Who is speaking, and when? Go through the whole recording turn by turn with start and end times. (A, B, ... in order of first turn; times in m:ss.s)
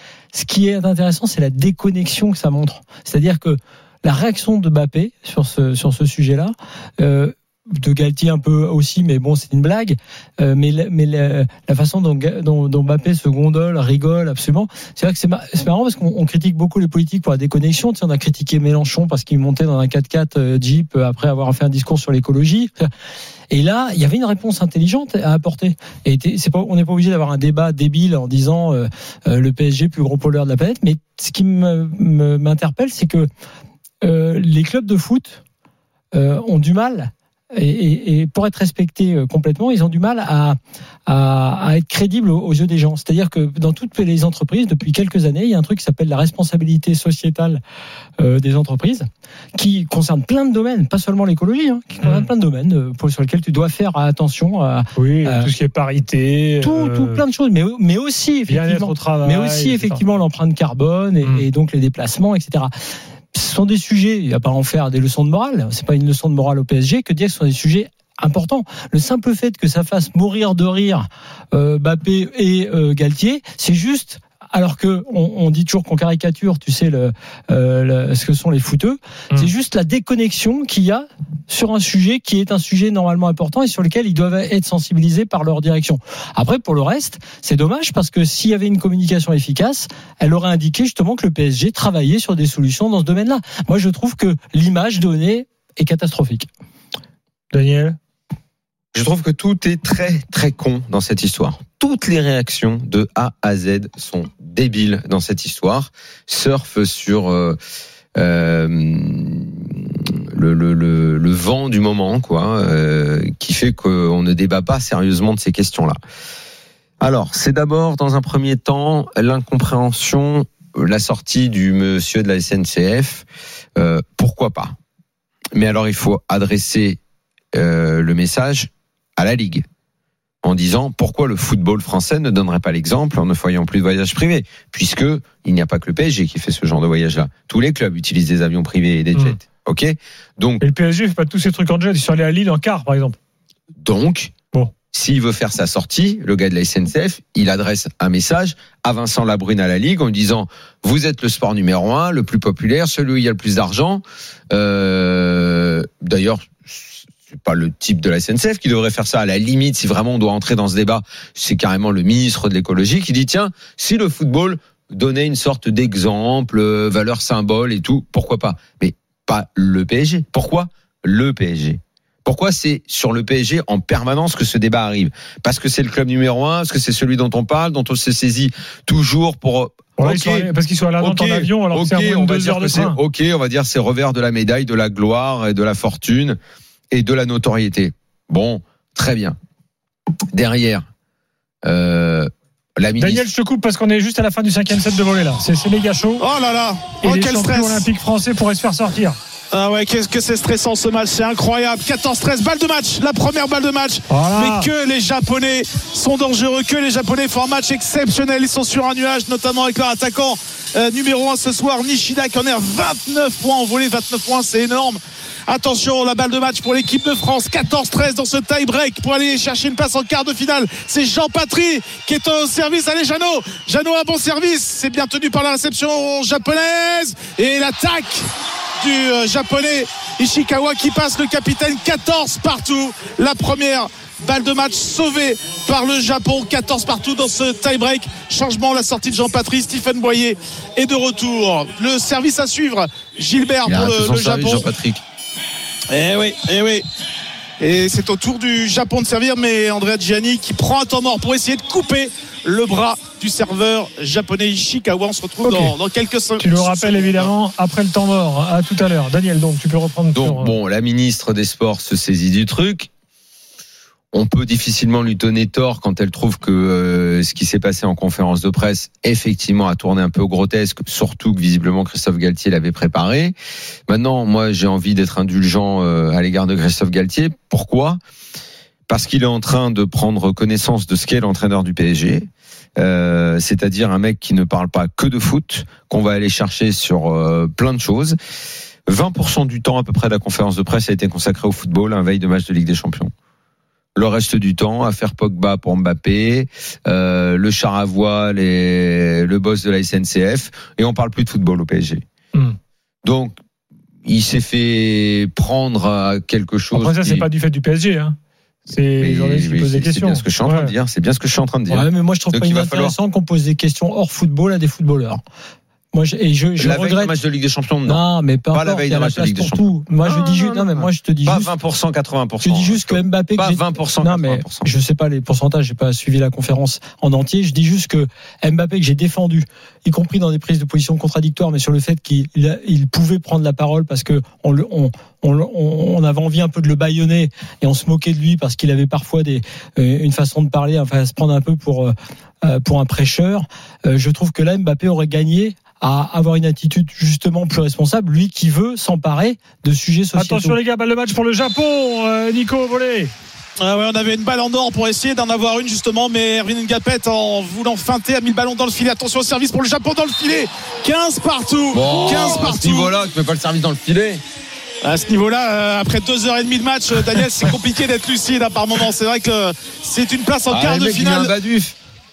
0:00.3-0:22.9 A
0:23.5-0:33.3 A
0:34.0-0:35.4 A
0:36.1-0:47.6 A
0:48.2-0:55.5 A
0:52.0-0:52.3 B
0:55.0-0:57.2 B
0:56.6-1:02.7 A
0:58.5-1:00.1 B
1:03.3-1:36.5 A
1:37.5-1:38.0 B
1:38.9-1:47.6 C
1:48.1-1:56.0 C
1:57.0-2:03.2 C
2:03.8-2:04.8 C
2:05.5-2:07.0 C
2:07.5-2:09.6 C
2:10.4-2:20.6 C
2:20.6-2:23.2 B
2:23.8-2:24.3 C
2:24.9-3:00.5 C
3:00.0-3:03.0 B
3:01.0-3:06.4 C
3:06.9-3:09.4 C
3:10.3-3:10.9 C
3:11.6-3:13.2 C
3:13.0-3:16.2 B
3:16.2-3:17.9 D
3:17.0-3:19.2 B
3:19.5-3:48.3 D
3:24.1-3:24.7 B
3:48.8-4:04.6 D
4:03.6-4:05.0 C
4:05.9-4:06.8 D
4:07.6-4:17.3 D
4:15.4-4:15.8 B
4:16.4-4:20.5 B
4:20.1-4:22.9 C
4:24.1-4:33.4 C
4:33.9-4:38.0 C
4:38.9-4:48.2 C
4:48.9-4:53.1 C
4:54.0-5:02.0 C
5:03.0-5:03.4 C
5:04.0-5:07.2 C
5:06.7-5:08.2 B
5:08.7-5:10.7 B
5:09.0-5:13.0 C
5:11.7-5:15.2 A
5:15.9-5:17.1 A
5:16.6-5:24.7 C
5:17.9-5:21.5 A
5:22.4-5:50.6 A
5:50.2-5:53.1 B
5:53.6-6:02.9 D
6:01.7-6:04.2 C
6:04.8-6:11.3 D
6:10.5-6:11.8 C